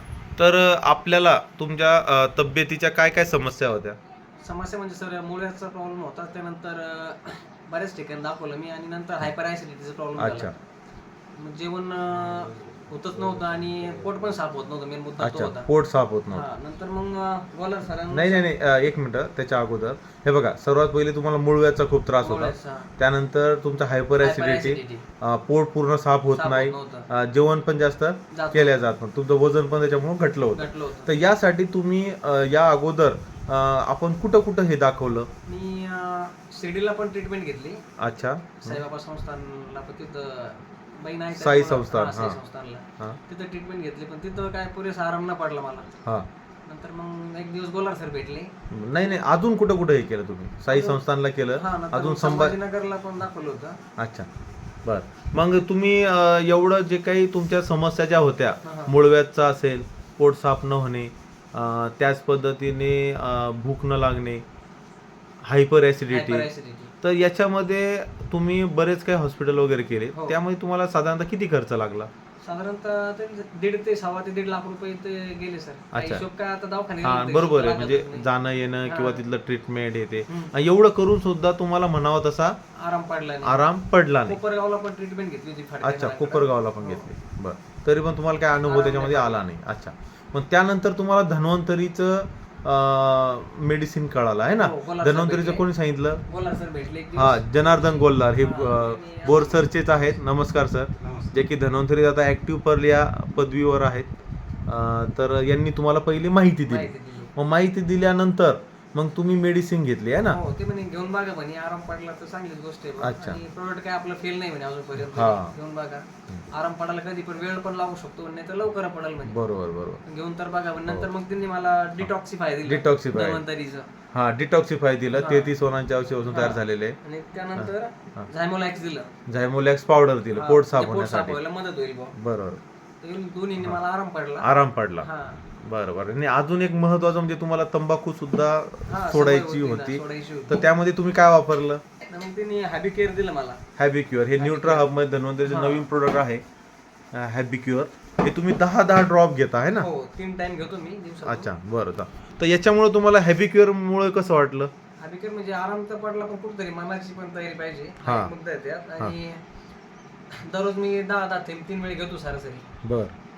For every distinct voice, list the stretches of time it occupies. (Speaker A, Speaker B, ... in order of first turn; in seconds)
Speaker A: 0.4-4.0, 10.2-10.5, 15.2-16.5, 18.1-35.3, 38.0-38.8, 41.4-42.4, 48.7-52.6, 54.0-54.3, 54.8-64.4, 65.4-66.5, 67.0-72.1, 75.9-76.2, 77.0-82.6, 83.4-84.4, 85.8-96.2, 97.1-104.1, 104.7-110.4, 113.0-113.4, 115.0-115.5, 119.3-120.0, 122.6-123.4, 124.1-127.0, 127.5-128.2, 129.3-131.4, 132.2-132.6, 134.4-141.8, 143.8-146.4, 147.1-149.9, 151.2-154.7, 158.0-158.3, 162.8-163.1
Speaker B: 4.4-10.5, 11.3-15.7, 16.3-18.5, 22.2-22.9, 24.2-25.0, 26.3-27.1, 28.3-28.8, 30.5-31.1, 35.5-37.8, 38.6-45.9, 46.6-48.5, 50.7-51.0, 51.5-53.8, 58.6-58.9, 66.1-66.9, 70.1-70.4, 72.4-78.3, 78.8-79.2, 80.3-80.5, 82.7-83.6, 84.2-87.1, 88.6-89.4, 94.5-95.6, 96.3-100.1, 106.7-107.3, 110.2-119.4, 120.0-124.0, 125.1-125.6, 126.3-129.1, 130.3-132.2, 133.0-134.5, 135.0-135.4, 138.9-140.6, 142.0-143.6, 144.3-144.9, 145.4-145.9, 149.7-151.5, 155.0-159.4, 160.3-162.7